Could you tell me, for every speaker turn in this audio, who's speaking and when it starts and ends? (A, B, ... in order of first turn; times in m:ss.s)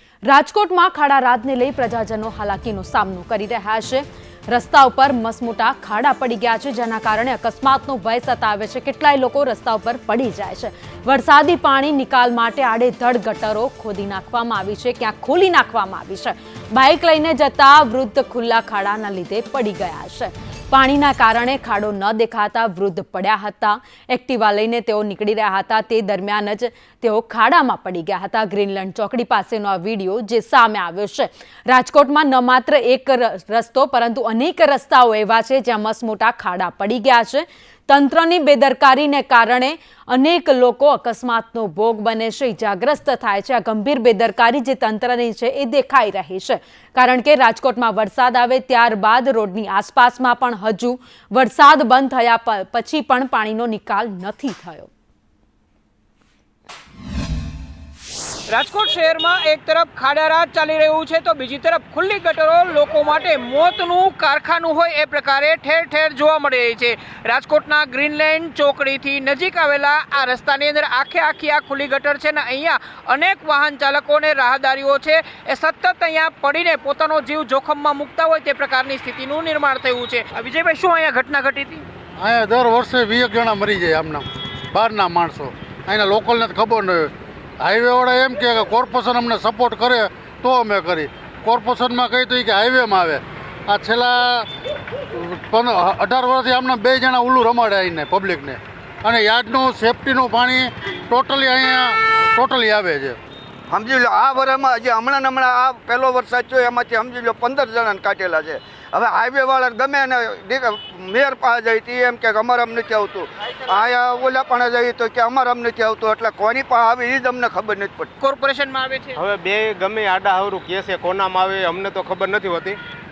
0:00.3-0:54.9 A
0:58.5-1:21.8 B
1:22.2-1:34.5 C
1:35.1-1:43.2 C
1:43.7-1:58.1 D
1:58.2-1:59.2 B
1:59.2-2:02.8 E